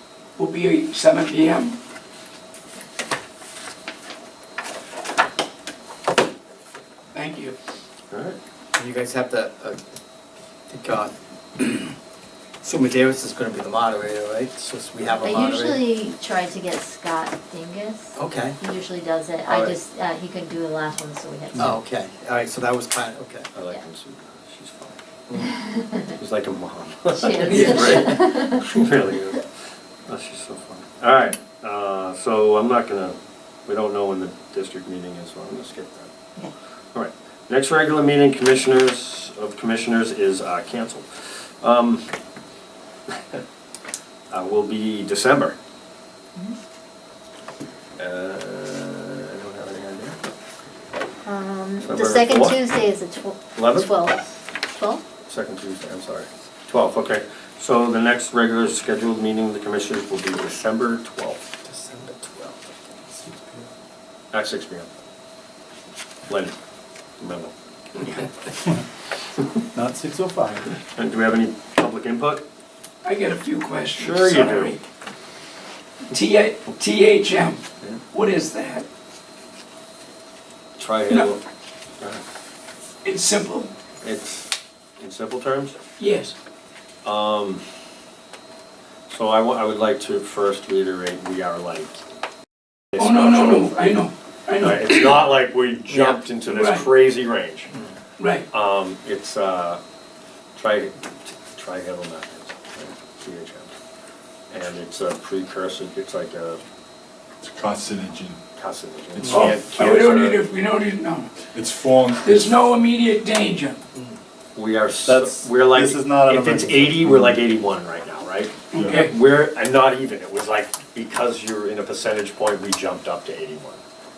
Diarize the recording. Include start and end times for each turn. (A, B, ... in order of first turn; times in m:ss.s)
0:00.4-0:01.8 A
0:07.1-0:07.5 A
0:08.1-0:08.4 B
0:08.8-0:09.8 C
0:10.7-0:11.9 C
0:12.6-0:15.8 C
0:15.2-0:21.7 D
0:18.2-0:18.6 C
0:21.6-0:23.5 C
0:23.5-0:25.0 B
0:25.4-0:26.0 D
0:26.2-0:29.4 B
0:27.2-0:28.7 D
0:27.5-0:28.0 A
0:30.1-0:36.1 B
0:36.9-0:42.1 B
0:43.1-0:43.4 B
0:44.3-0:45.5 B
0:48.0-0:50.2 B
0:51.2-0:55.0 D
0:51.8-0:52.6 B
0:53.6-0:53.9 B
0:55.2-1:01.4 B
1:01.6-1:03.2 C
1:04.3-1:04.9 B
1:06.3-1:06.6 B
1:07.2-1:07.5 B
1:09.7-1:10.7 E
1:10.9-1:12.4 B
1:13.0-1:14.8 A
1:13.9-1:14.8 B
1:16.1-1:17.6 A
1:18.1-1:18.8 A
1:20.8-1:21.4 B
1:23.0-1:23.7 A
1:24.0-1:25.8 B
1:26.0-1:26.3 A
1:27.0-1:27.6 B
1:29.1-1:32.0 B
1:32.9-1:33.7 B
1:32.9-1:35.2 A
1:34.6-1:37.7 B
1:35.9-1:36.2 C
1:36.4-1:36.8 A
1:38.2-1:38.4 A
1:38.5-1:39.8 B
1:40.6-1:43.7 B
1:44.5-1:46.6 B
1:47.4-1:48.4 F
1:48.6-1:50.4 B
1:49.1-1:49.9 F
1:49.3-1:51.3 A
1:51.5-1:52.6 F
1:52.2-1:53.8 A
1:54.5-2:03.8 B
1:55.0-1:57.4 E
1:58.7-1:59.1 A